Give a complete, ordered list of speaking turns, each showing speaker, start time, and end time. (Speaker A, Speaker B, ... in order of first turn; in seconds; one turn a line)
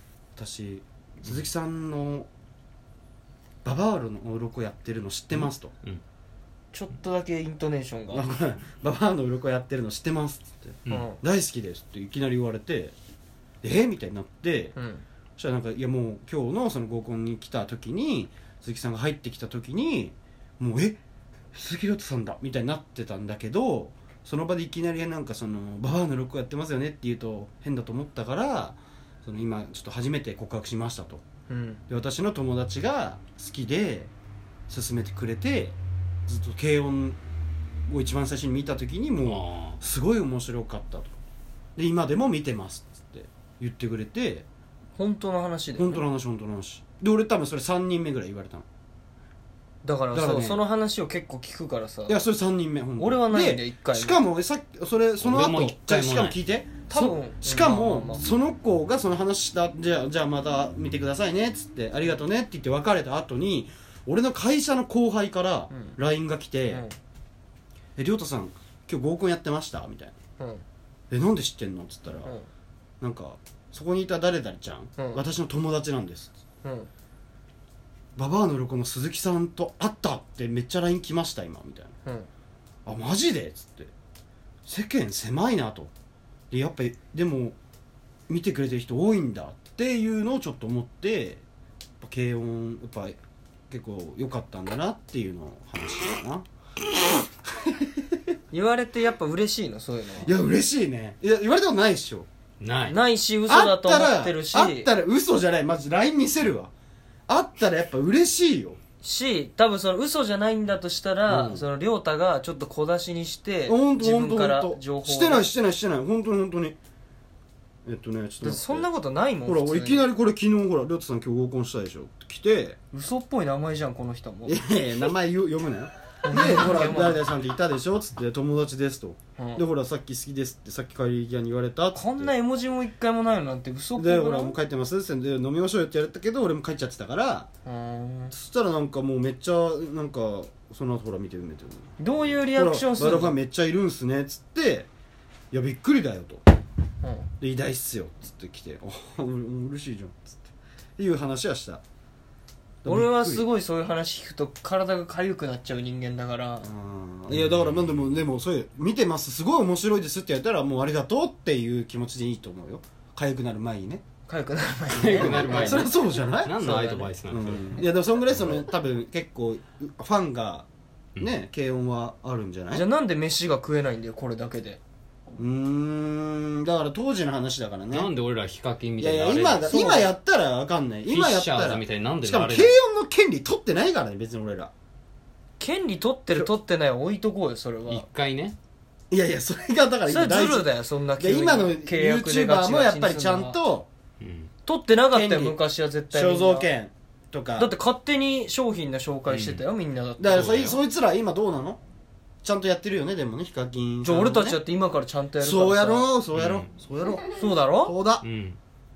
Speaker A: 0.3-2.3
Speaker A: 3.6-5.7
Speaker B: 5.3-6.0
Speaker C: 6.7-8.3
Speaker A: 8.1-12.9
Speaker C: 10.9-11.2
Speaker A: 13.6-14.7
Speaker C: 14.8-15.0
Speaker A: 15.4-21.0
Speaker A: 21.5-31.2
Speaker C: 31.5-31.8
Speaker A: 31.9-34.1
Speaker A: 34.7-37.2
Speaker A: 37.9-41.1
Speaker B: 39.2-39.8
Speaker A: 41.8-44.5
Speaker C: 44.9-46.0
Speaker A: 45.8-48.6
Speaker C: 49.8-52.2
Speaker A: 50.1-50.6
Speaker A: 52.1-66.8
Speaker C: 53.0-54.2
Speaker B: 55.2-56.4
Speaker C: 56.9-58.2
Speaker C: 65.7-66.0
Speaker C: 66.7-66.9
Speaker A: 68.0-70.1
Speaker C: 70.4-70.6
Speaker A: 71.1-72.3
Speaker A: 73.0-76.3
Speaker C: 76.6-76.9
Speaker A: 78.2-81.9
Speaker A: 82.8-83.9
Speaker A: 84.7-85.9
Speaker A: 86.5-87.5
Speaker A: 88.3-91.4
Speaker A: 92.0-93.2
Speaker A: 93.7-96.5
Speaker A: 97.7-98.2
Speaker C: 98.5-100.3
Speaker A: 100.2-102.3
Speaker B: 102.6-103.0
Speaker C: 102.9-104.9
Speaker A: 103.5-106.7
Speaker A: 107.3-108.8
Speaker C: 109.0-115.5
Speaker A: 111.3-111.7
Speaker A: 113.7-116.8
Speaker A: 117.8-118.8
Speaker C: 118.4-120.1
Speaker A: 119.4-122.8
Speaker C: 122.9-124.6
Speaker A: 124.4-132.3
Speaker C: 126.2-127.2
Speaker C: 129.4-129.6
Speaker C: 131.9-134.6
Speaker A: 133.9-137.5
Speaker C: 137.7-138.3
Speaker A: 138.3-144.9
Speaker C: 142.0-143.4
Speaker A: 145.5-146.4
Speaker C: 147.0-147.3
Speaker A: 147.4-150.4
Speaker A: 151.0-151.8
Speaker A: 152.8-153.4
Speaker C: 152.8-156.7
Speaker A: 156.6-164.0
Speaker B: 157.3-158.2
Speaker C: 164.2-165.9
Speaker B: 164.9-167.8
Speaker A: 165.0-166.6
Speaker C: 166.6-167.1
Speaker A: 167.2-170.7
Speaker A: 171.2-172.9
Speaker C: 172.7-174.8
Speaker A: 175.3-178.1
Speaker B: 177.9-179.7
Speaker A: 179.0-184.7
Speaker C: 179.7-180.1
Speaker B: 181.1-182.8
Speaker C: 185.6-188.0
Speaker B: 187.9-188.6
Speaker A: 189.1-193.9
Speaker C: 190.1-193.6
Speaker B: 194.2-194.5
Speaker C: 194.6-196.7
Speaker A: 195.1-195.6
Speaker A: 196.1-197.8
Speaker C: 197.6-200.4
Speaker B: 199.3-199.6
Speaker A: 200.2-201.8
Speaker B: 200.3-200.8
Speaker A: 202.4-204.6
Speaker C: 204.0-206.1
Speaker A: 205.4-208.2
Speaker B: 206.3-206.7
Speaker C: 207.3-208.0
Speaker B: 208.2-208.6